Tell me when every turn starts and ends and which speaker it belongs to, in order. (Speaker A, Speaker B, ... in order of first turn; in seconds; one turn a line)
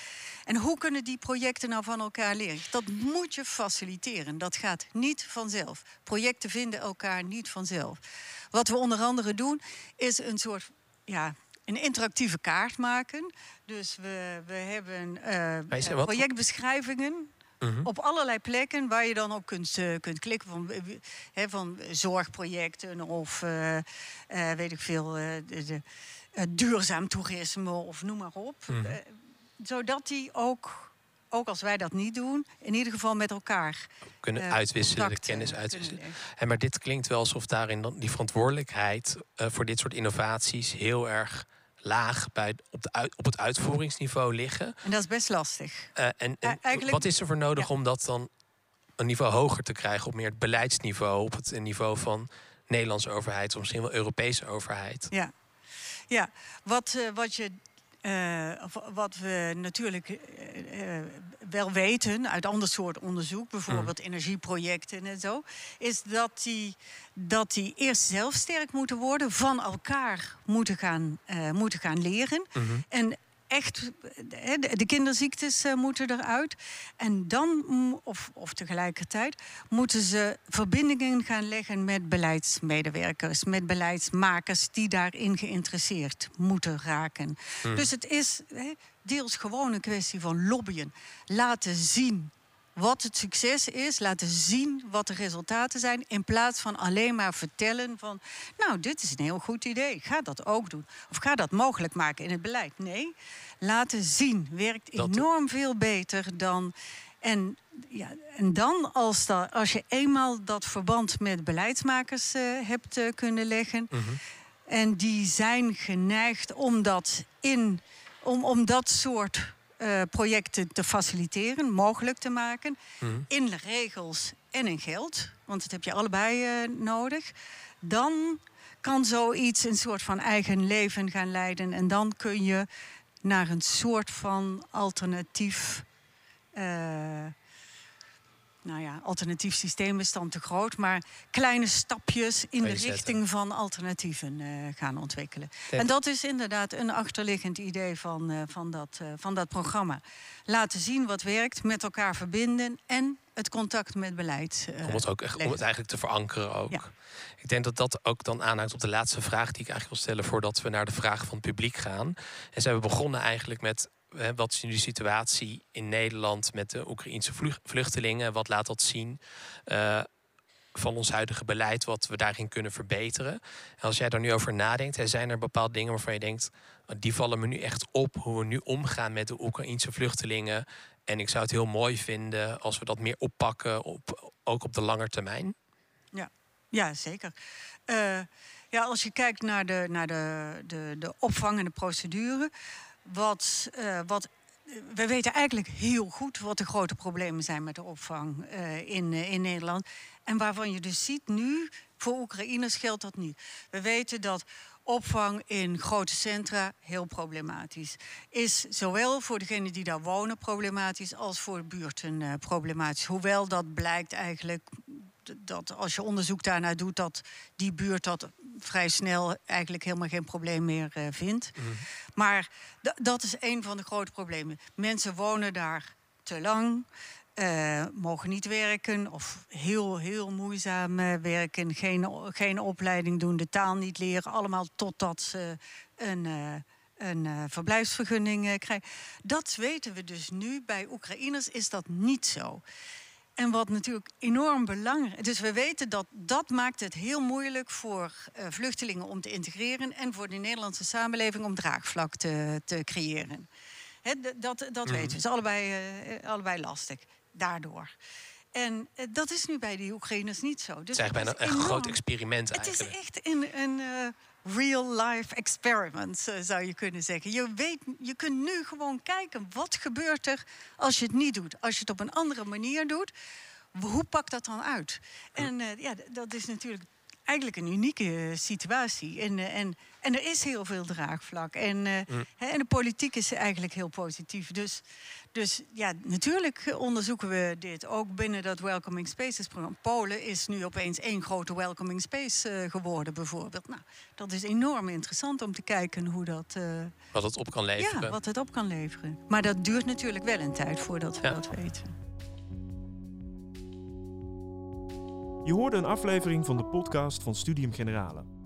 Speaker A: 0.5-8.0
Speaker A: 8.5-25.8
Speaker B: 15.7-16.2
Speaker B: 17.6-17.9
Speaker A: 26.4-36.2
Speaker B: 28.7-29.0
Speaker B: 34.2-44.8
Speaker A: 44.8-45.9
Speaker B: 46.0-48.3
Speaker A: 46.4-47.0
Speaker B: 49.0-55.1
Speaker A: 56.1-113.9
Speaker B: 72.5-72.8
Speaker B: 105.0-105.2
Speaker B: 113.9-114.2
Speaker A: 114.7-132.7
Speaker B: 123.0-123.3
Speaker A: 133.2-135.8
Speaker A: 136.6-137.3
Speaker A: 138.6-155.6
Speaker B: 142.6-143.2
Speaker B: 154.8-170.1
Speaker B: 170.7-185.5
Speaker A: 186.1-187.3
Speaker A: 187.9-192.5
Speaker A: 193.0-242.6
Speaker B: 221.6-221.8
Speaker A: 243.4-253.5
Speaker A: 254.0-257.9
Speaker B: 254.9-255.2
Speaker A: 258.5-262.0
Speaker B: 260.9-262.9
Speaker A: 262.5-273.1
Speaker A: 273.7-296.9
Speaker B: 297.1-298.1
Speaker A: 297.8-301.9
Speaker C: 305.4-308.3